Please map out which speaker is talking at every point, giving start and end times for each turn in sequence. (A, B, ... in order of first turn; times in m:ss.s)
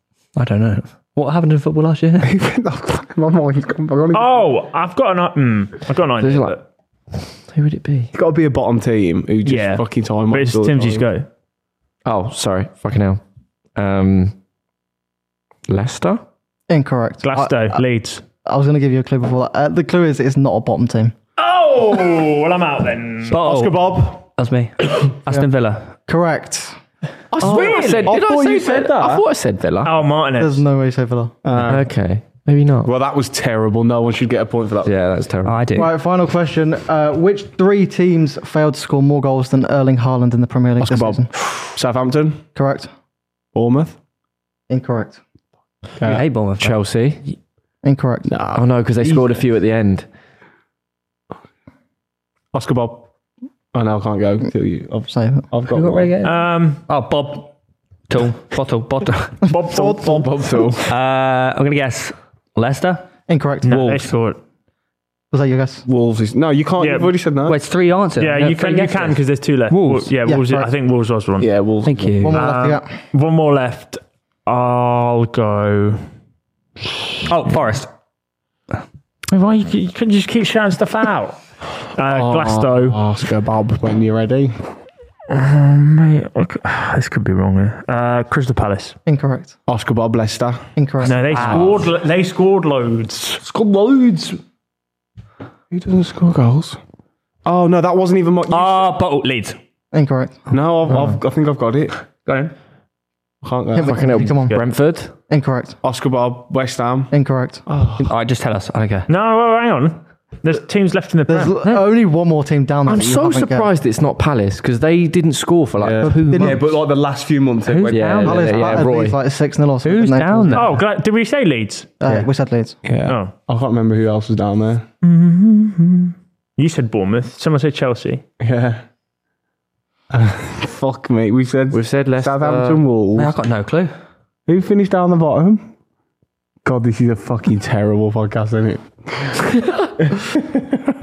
0:00.4-0:02.4 A
0:02.2-0:04.4 B
0:04.1-0:06.6 C
0:06.2-0:06.6 D
0:07.1-0:08.1 D
0:08.1-0:11.0 B
0:09.4-0:11.3 C
0:12.0-0:13.2 D
0:13.8-0:14.4 D
0:15.7-0:16.2 D
0:16.7-0:17.8 E
0:17.2-0:18.2 C
0:18.4-0:21.1 E
0:21.4-0:23.4 C
0:23.3-0:25.9 A
0:23.3-0:24.2 B
0:26.1-0:26.8 E
0:27.3-0:30.0 D
0:27.4-0:28.1 A
0:27.4-0:29.2 B
0:29.8-0:30.6 C
0:30.4-0:31.4 E
0:31.4-0:31.9 B
0:31.6-0:32.9 D
0:32.8-0:34.9 B
0:34.8-0:35.6 D
0:35.4-0:35.9 A
0:35.8-0:41.3 E
0:40.8-0:42.4 B
0:42.6-0:42.9 E
0:43.5-0:44.0 B
0:44.7-0:45.2 E
0:46.0-0:46.8 A
0:46.6-0:47.2 D
0:47.8-0:48.3 E
0:48.3-0:49.4 B
0:48.5-0:50.1 D
0:52.5-0:53.1 B
0:53.7-0:56.1 B
0:55.1-0:55.5 E
0:55.7-0:57.5 A
0:56.2-0:56.8 C
0:58.1-0:59.4 A
0:59.5-1:00.3 C
0:59.5-1:00.3 E
0:59.9-1:00.9 D
1:00.9-1:03.1 A
1:03.3-1:03.9 E
1:03.6-1:04.1 A
1:03.6-1:04.4 C
1:05.3-1:05.8 E
1:05.9-1:07.6 B
1:06.8-1:07.1 C
1:07.5-1:10.1 A
1:08.2-1:11.5 C
1:10.2-1:10.7 E
1:11.4-1:12.2 B
1:11.8-1:12.4 A
1:12.2-1:12.9 E
1:12.3-1:16.0 C
1:17.3-1:17.9 A
1:19.3-1:21.4 C
1:22.0-1:23.0 C
1:22.1-1:24.5 B
1:25.3-1:29.0 C
1:29.1-1:29.6 E
1:29.7-1:30.7 B
1:30.8-1:31.2 E
1:31.0-1:33.4 C
1:31.2-1:31.9 A
1:33.4-1:34.4 B
1:35.7-1:36.8 B
1:37.4-1:38.9 B
1:38.5-1:39.6 A
1:39.9-1:40.5 E
1:40.5-1:42.0 B
1:42.2-1:42.5 A
1:43.4-1:44.2 B
1:43.7-1:44.6 E
1:43.8-1:45.1 D
1:45.2-1:45.8 E
1:45.8-1:47.1 B
1:47.1-1:47.6 E
1:47.7-1:48.1 B
1:48.0-1:49.0 A
1:48.8-1:49.1 D
1:49.1-1:51.5 C
1:51.3-1:53.7 E
1:52.9-1:56.6 D
1:55.8-1:58.7 B
1:56.1-1:56.6 A
1:56.1-1:56.6 E
1:57.7-1:58.8 A
1:57.9-1:59.2 D
1:58.2-2:00.7 E
1:59.8-2:00.8 A
2:00.5-2:02.0 C
2:02.0-2:02.8 E
2:02.8-2:04.8 B
2:03.1-2:03.3 C
2:05.0-2:08.2 C
2:08.4-2:08.8 B
2:10.1-2:13.4 B
2:11.7-2:12.8 D
2:13.2-2:13.9 A
2:14.5-2:15.6 B
2:16.6-2:20.6 B